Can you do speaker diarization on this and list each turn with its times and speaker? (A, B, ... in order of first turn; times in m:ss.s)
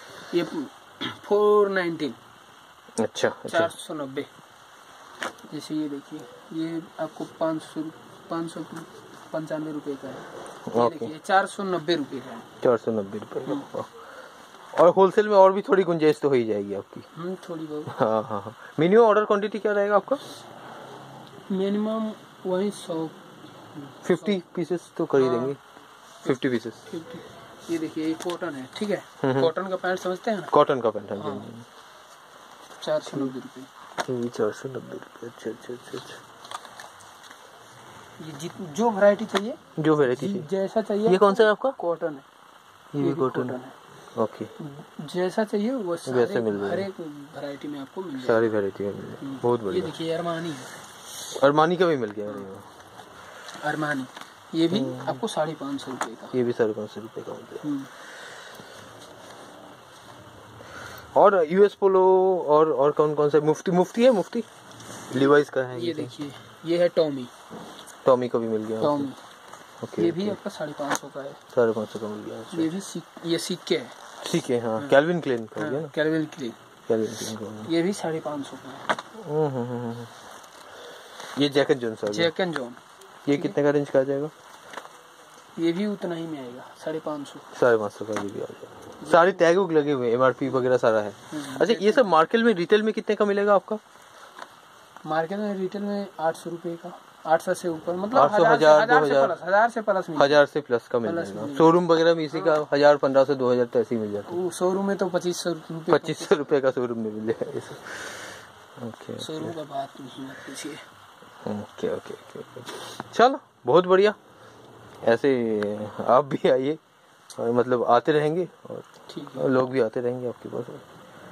0:00.3-0:02.2 A
0:03.0-0:03.7 B
0:03.5-0:04.3 A
0:05.5-0:12.5 A
0:10.7-0:11.1 B
0:12.6-0:13.9 B
0:14.7-0:17.1 B
0:17.1-0:18.0 A
0:17.9-0:20.2 B
0:21.5-0:23.2 A
0:23.8-0:24.4 A
0:24.0-0:25.6 B
0:25.2-0:25.6 A
0:26.2-0:26.8 B
0:26.9-0:30.5 A
0:29.2-0:29.5 B
0:30.5-0:31.6 B
0:31.2-0:31.5 A
0:32.8-0:33.7 A
0:34.1-0:36.2 B
0:38.2-0:42.2 A
0:39.8-0:40.5 B
0:41.1-0:41.8 B
0:42.9-0:43.6 B
0:43.0-0:43.8 A
0:44.2-0:44.5 B
0:44.6-0:48.5 A
0:46.1-0:46.9 B
0:48.2-0:49.9 B
0:49.2-0:50.7 A
0:51.3-0:52.7 B
0:53.6-0:56.4 A
0:54.7-0:55.2 B
0:56.3-0:57.7 B
0:57.6-0:57.9 A
1:01.2-1:04.5 B
1:05.1-1:06.1 B
1:05.7-1:07.3 A
1:08.0-1:09.1 B
1:08.8-1:09.2 A
1:09.8-1:10.4 B
1:10.0-1:11.4 A
1:11.5-1:12.7 B
1:12.5-1:14.0 A
1:14.2-1:15.9 B
1:15.6-1:16.6 A
1:16.9-1:17.7 B
1:17.6-1:19.0 A
1:19.2-1:20.1 B
1:21.4-1:22.3 B
1:22.1-1:22.8 A
1:23.3-1:24.3 B
1:25.6-1:27.5 A
1:27.5-1:33.8 B
1:29.0-1:29.4 A
1:31.3-1:32.1 A
1:35.0-1:40.4 A
1:38.1-1:39.4 B
1:40.2-1:44.4 B
1:41.0-1:41.8 A
1:44.3-1:46.4 A
1:45.9-1:49.5 B
1:49.2-1:50.8 A
1:51.4-1:54.2 B
1:55.0-1:56.8 B
1:57.4-2:00.8 B
1:59.1-1:59.5 A